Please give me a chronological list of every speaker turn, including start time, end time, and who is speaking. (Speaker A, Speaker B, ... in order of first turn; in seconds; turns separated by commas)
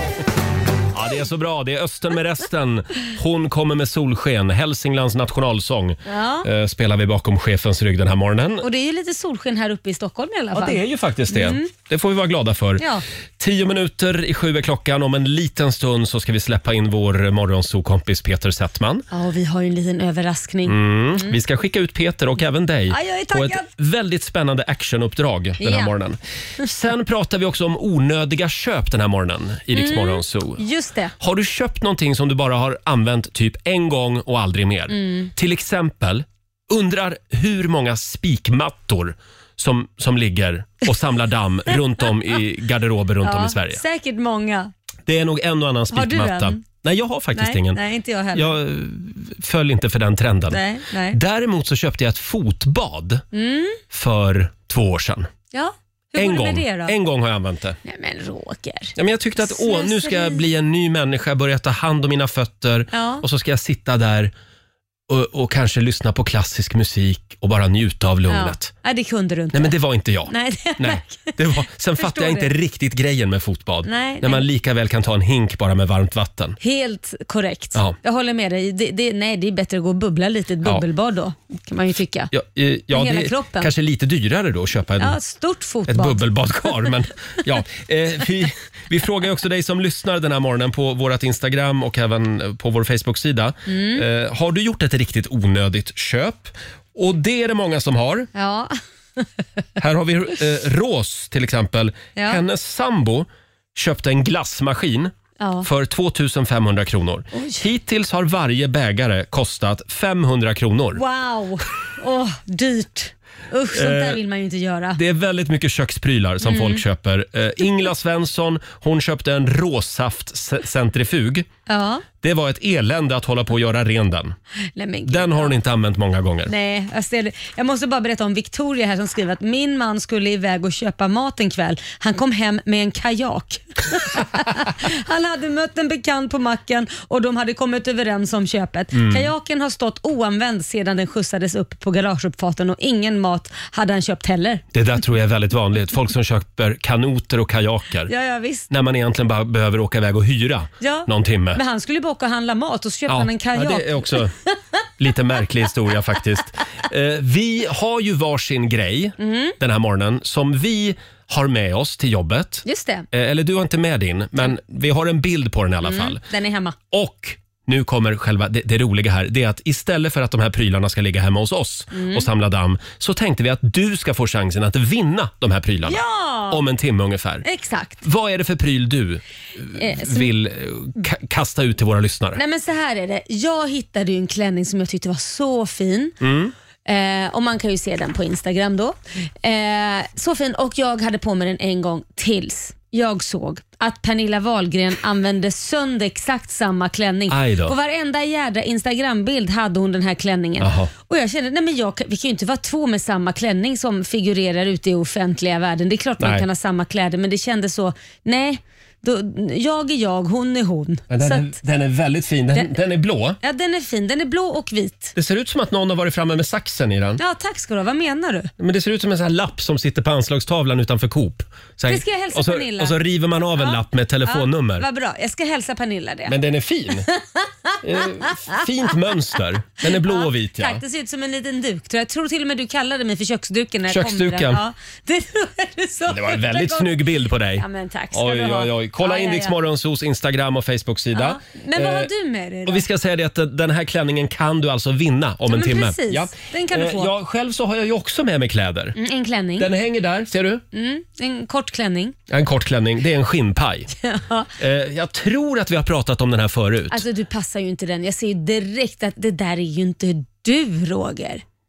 Speaker A: 0.9-8.7, Speaker B: 6.1-6.5, Speaker B: 8.6-11.7, Speaker A: 10.5-12.8, Speaker B: 12.8-13.0, Speaker A: 13.4-19.1, Speaker B: 19.1-21.4, Speaker A: 20.7-30.6, Speaker B: 22.9-23.7, Speaker B: 25.6-25.9, Speaker B: 29.7-31.1, Speaker A: 31.2-43.8, Speaker B: 34.9-35.3, Speaker B: 43.2-44.7, Speaker A: 45.1-47.8, Speaker B: 45.9-46.6, Speaker B: 47.3-48.5, Speaker A: 48.3-53.2, Speaker B: 50.5-51.2, Speaker B: 53.3-53.8, Speaker A: 53.9-55.3, Speaker B: 55.5-57.0, Speaker A: 56.2-57.8, Speaker B: 57.8-60.4, Speaker A: 59.0-64.3, Speaker B: 62.9-63.2, Speaker A: 65.1-68.7, Speaker B: 68.3-69.8, Speaker A: 69.5-76.6, Speaker B: 70.3-72.5, Speaker B: 73.9-74.4, Speaker B: 76.6-82.3, Speaker A: 82.3-85.2, Speaker B: 82.9-83.7, Speaker B: 85.0-86.3, Speaker A: 85.9-98.3, Speaker B: 93.7-94.0, Speaker B: 98.3-99.2, Speaker A: 99.8-111.0, Speaker B: 102.2-102.4, Speaker B: 105.4-105.7, Speaker B: 107.3-107.7, Speaker B: 111.0-115.0, Speaker A: 113.7-114.2, Speaker A: 115.0-121.5, Speaker B: 116.4-116.8, Speaker B: 121.7-122.0, Speaker A: 122.2-124.4, Speaker B: 124.8-125.5, Speaker A: 125.1-126.5, Speaker B: 126.5-144.6, Speaker A: 138.9-139.3, Speaker A: 144.7-148.1, Speaker B: 148.1-148.7, Speaker A: 148.7-151.6, Speaker B: 150.8-154.5, Speaker A: 153.1-154.3, Speaker A: 155.0-166.2, Speaker B: 159.2-159.6, Speaker B: 162.7-163.1, Speaker B: 165.8-166.8, Speaker A: 166.9-177.4, Speaker B: 171.9-172.3, Speaker B: 175.9-176.6, Speaker B: 177.4-178.0, Speaker A: 178.0-182.4, Speaker B: 179.8-180.3, Speaker B: 182.3-186.2, Speaker A: 186.2-186.5, Speaker B: 186.8-211.6, Speaker A: 197.3-197.8, Speaker A: 200.6-200.9, Speaker A: 206.2-206.4, Speaker A: 211.1-213.4, Speaker B: 213.4-215.2, Speaker A: 215.2-217.2, Speaker B: 217.2-218.5, Speaker A: 218.6-224.9, Speaker B: 221.9-223.0, Speaker B: 223.6-226.3, Speaker A: 226.3-227.1, Speaker B: 227.2-228.6, Speaker A: 227.8-230.8, Speaker B: 229.8-237.1, Speaker A: 233.9-234.6, Speaker A: 236.1-242.1, Speaker B: 237.6-239.6, Speaker B: 241.1-242.9, Speaker A: 242.7-249.0, Speaker B: 245.5-247.1, Speaker B: 248.9-249.7, Speaker A: 249.6-250.6, Speaker B: 250.7-252.2, Speaker A: 252.3-253.9, Speaker B: 254.0-254.5, Speaker A: 254.6-257.1, Speaker B: 256.9-261.4